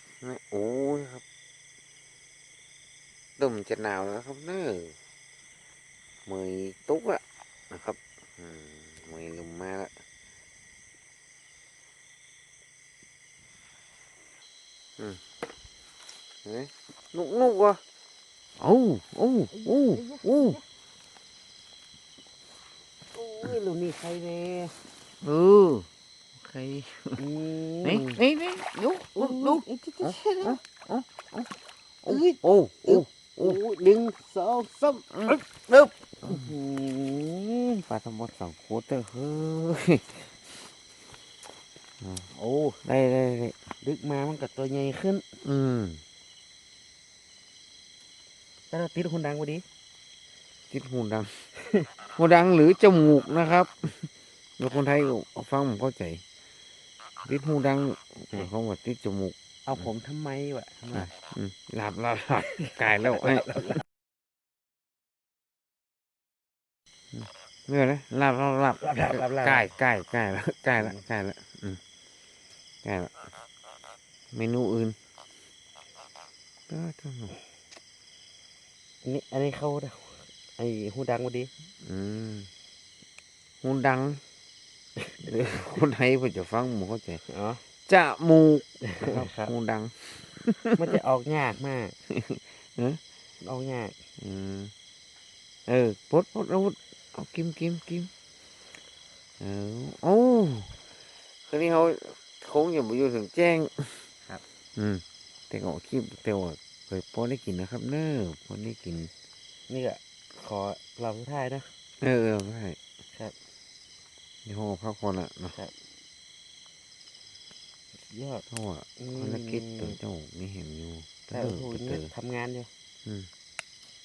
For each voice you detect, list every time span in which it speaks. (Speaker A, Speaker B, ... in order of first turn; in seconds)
Speaker A: 0.2-1.2, 3.4-5.0, 6.3-9.9, 16.4-17.8, 18.6-20.6, 25.2-27.2, 27.8-31.5, 32.0-33.6, 35.1-36.5, 37.9-40.4, 42.8-43.5, 45.4-46.0, 50.7-51.5, 52.2-56.2, 57.2-59.9, 60.9-63.8, 67.1-71.8, 72.8-73.2, 74.3-75.0, 76.7-77.3, 81.8-82.5, 83.6-84.2, 85.2-87.2, 87.9-90.8, 92.1-93.0, 94.2-94.7, 95.7-98.1, 99.4-100.8, 101.5-104.1, 104.8-109.1, 112.0-112.8, 114.5-115.6, 118.5-122.1
Speaker B: 19.5-20.6, 23.1-24.7, 27.2-28.2, 29.2-30.6, 32.1-35.4, 36.2-37.8, 42.3-42.8, 43.8-45.2, 48.7-49.6, 51.6-51.9, 59.7-61.1, 62.7-63.8, 68.8-69.7, 79.0-81.5, 85.0-85.3, 87.3-87.6, 88.9-89.5, 90.8-92.0, 93.4-94.0, 109.7-111.7, 118.0-118.5, 119.0-120.0, 121.3-122.7